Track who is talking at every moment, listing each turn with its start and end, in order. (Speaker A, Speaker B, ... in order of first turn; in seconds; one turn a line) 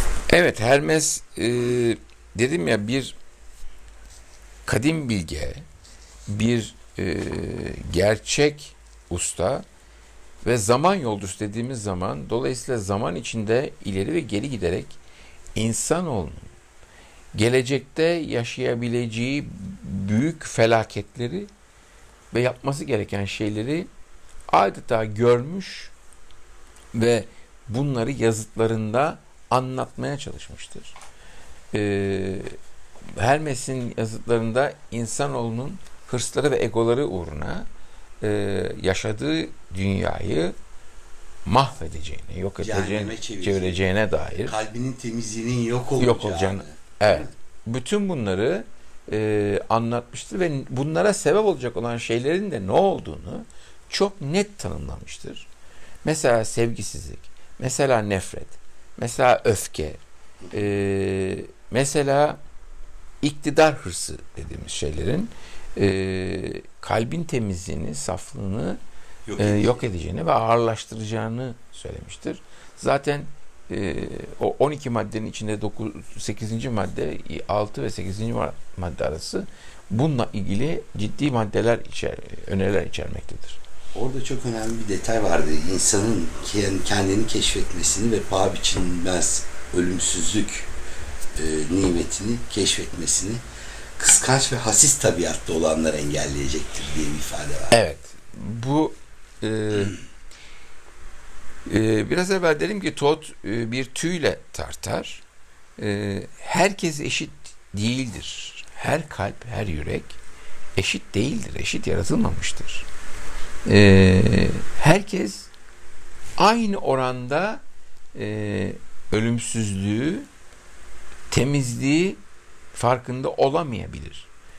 Speaker A: 0.3-3.1
Speaker A: 4.7-5.7
Speaker A: 6.3-9.6
Speaker A: 10.4-15.0
Speaker A: 15.5-16.5
Speaker A: 17.3-21.5
Speaker A: 22.3-23.9
Speaker A: 24.5-25.9
Speaker A: 26.9-30.9
Speaker A: 31.7-32.5
Speaker A: 33.1-37.7
Speaker A: 38.2-40.5
Speaker A: 41.5-44.5
Speaker B: 42.6-43.8
Speaker B: 44.4-47.3
Speaker A: 46.0-55.5
Speaker A: 56.0-60.0
Speaker B: 60.4-60.7
Speaker A: 60.5-62.4
Speaker A: 63.2-68.8
Speaker B: 69.3-69.9
Speaker A: 69.4-83.6
Speaker B: 83.9-90.7
Speaker B: 91.3-93.4
Speaker B: 94.0-97.8
Speaker A: 97.7-100.0
Speaker A: 101.7-105.2
Speaker A: 105.8-110.2
Speaker A: 110.8-112.8
Speaker A: 113.6-115.5
Speaker A: 116.4-117.6
Speaker A: 118.1-120.3
Speaker A: 121.3-122.2
Speaker A: 122.7-124.3